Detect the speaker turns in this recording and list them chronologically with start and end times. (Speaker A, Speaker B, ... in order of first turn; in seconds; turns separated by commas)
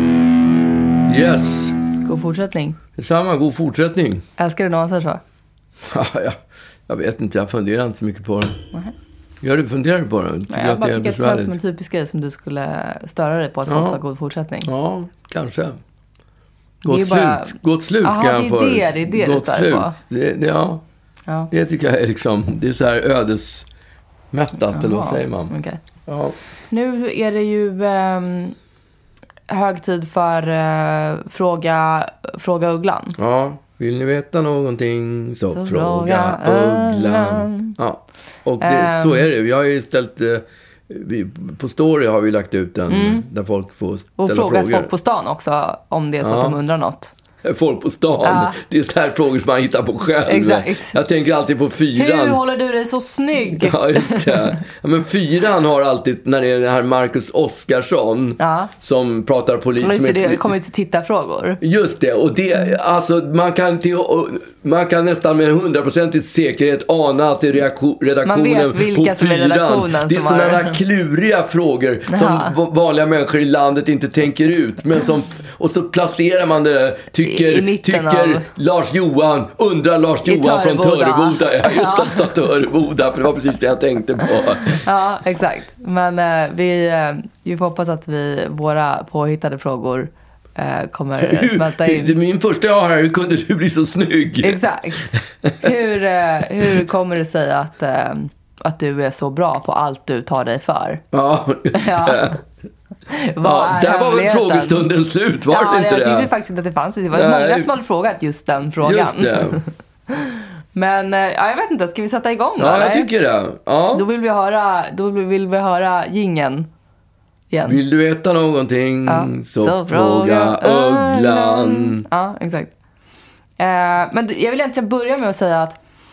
Speaker A: 1.1-1.8, Speaker B: 2.0-2.8, Speaker A: 3.0-4.2, Speaker B: 4.4-5.2, Speaker A: 5.8-8.6, Speaker A: 9.4-11.6, Speaker B: 10.5-14.7, Speaker A: 13.7-14.0, Speaker A: 14.6-15.8, Speaker A: 16.8-20.8, Speaker B: 16.9-19.9, Speaker A: 21.5-23.6, Speaker A: 24.3-25.5, Speaker B: 24.7-25.8, Speaker A: 26.1-26.4, Speaker B: 26.7-28.6, Speaker B: 29.5-33.2, Speaker A: 33.2-44.9, Speaker B: 35.5-37.7, Speaker B: 38.6-39.2, Speaker B: 42.9-43.2, Speaker B: 44.2-47.1, Speaker A: 46.2-46.6, Speaker A: 47.4-52.4, Speaker B: 48.2-48.6, Speaker B: 50.3-51.0, Speaker B: 52.0-54.6, Speaker A: 53.5-60.5, Speaker B: 58.4-58.7, Speaker B: 59.8-61.6, Speaker A: 61.6-84.8, Speaker B: 68.2-70.8, Speaker B: 72.1-72.6, Speaker B: 77.2-78.5, Speaker B: 80.2-82.3, Speaker B: 84.7-92.1, Speaker A: 91.2-94.6, Speaker B: 94.4-101.0, Speaker A: 95.1-95.7, Speaker A: 101.1-102.4, Speaker B: 101.7-102.4, Speaker B: 103.1-104.9, Speaker A: 103.4-106.3, Speaker B: 105.5-113.1, Speaker A: 107.1-107.7, Speaker A: 108.8-109.6, Speaker A: 112.6-114.0, Speaker B: 113.9-116.7, Speaker B: 117.5-117.8, Speaker A: 117.7-122.1, Speaker B: 119.0-122.7, Speaker B: 123.6-125.8